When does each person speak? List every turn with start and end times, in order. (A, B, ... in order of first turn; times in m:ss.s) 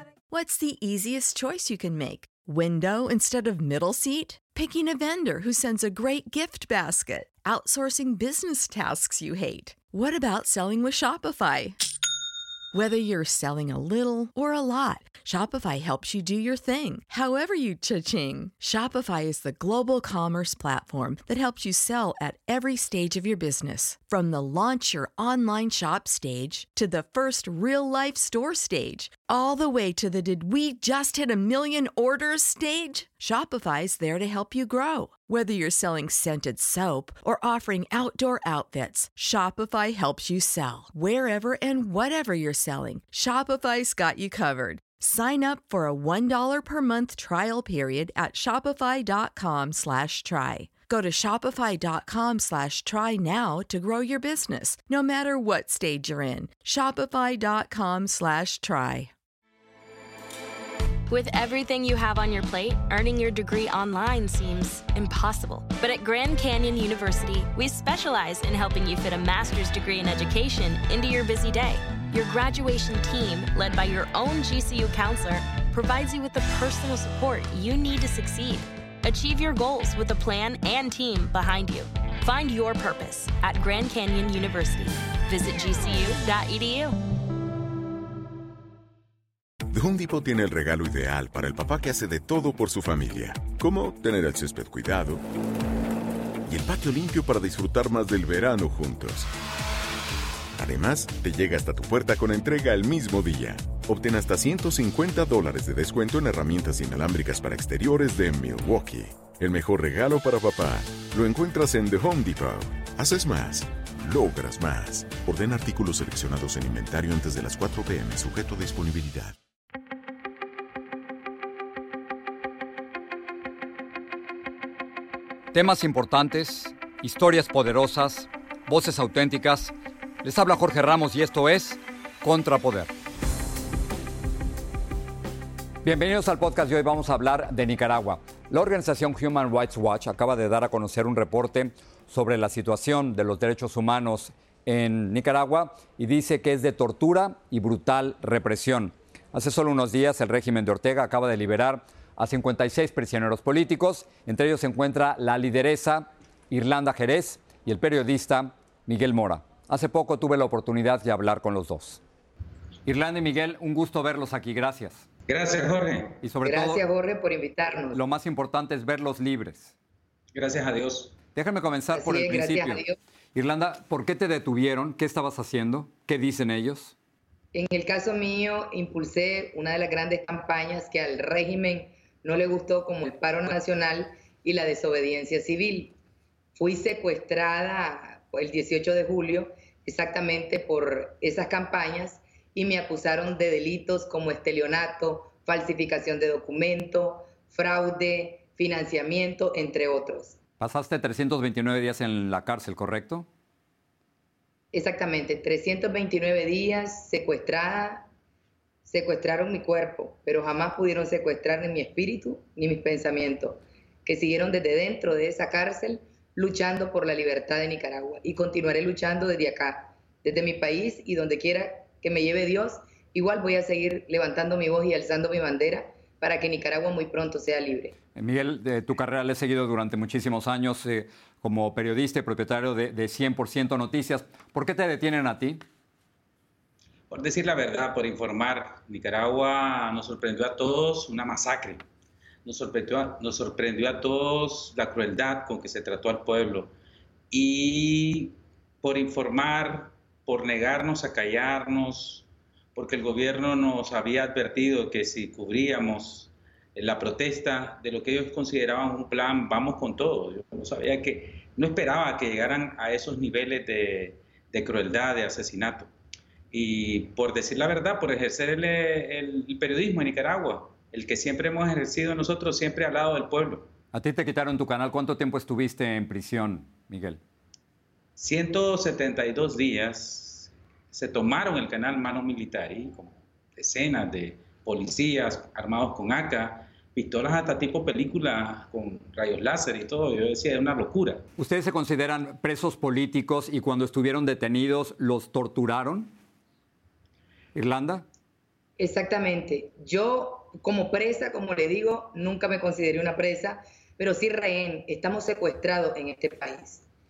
0:00.3-0:11.8 A
0:12.7-0:59.1 A
1:01.1-1:27.0 B
1:29.7-1:35.2 C
1:36.5-1:39.3 C
1:40.6-1:59.4 C
2:05.5-2:12.9 D
2:15.8-2:42.0 D
2:42.8-2:45.0 D
2:45.3-2:46.2 E
2:46.2-2:46.8 D
2:46.4-2:48.0 F
2:47.9-2:49.7 D
2:50.3-2:51.2 E
2:51.4-2:56.9 D
2:51.9-2:53.0 F
2:57.5-3:05.9 F
3:06.6-3:20.4 F
3:20.6-3:23.3 D
3:24.7-3:28.1 F
3:28.9-3:48.0 F
3:48.2-3:55.6 D
3:57.1-4:01.8 E
4:02.4-4:06.7 E
4:07.3-4:25.9 E
4:26.5-4:33.7 E
4:33.9-4:37.2 D
4:38.2-4:51.2 E
4:51.4-4:56.1 D
4:57.6-4:58.0 D
4:58.8-5:06.8 F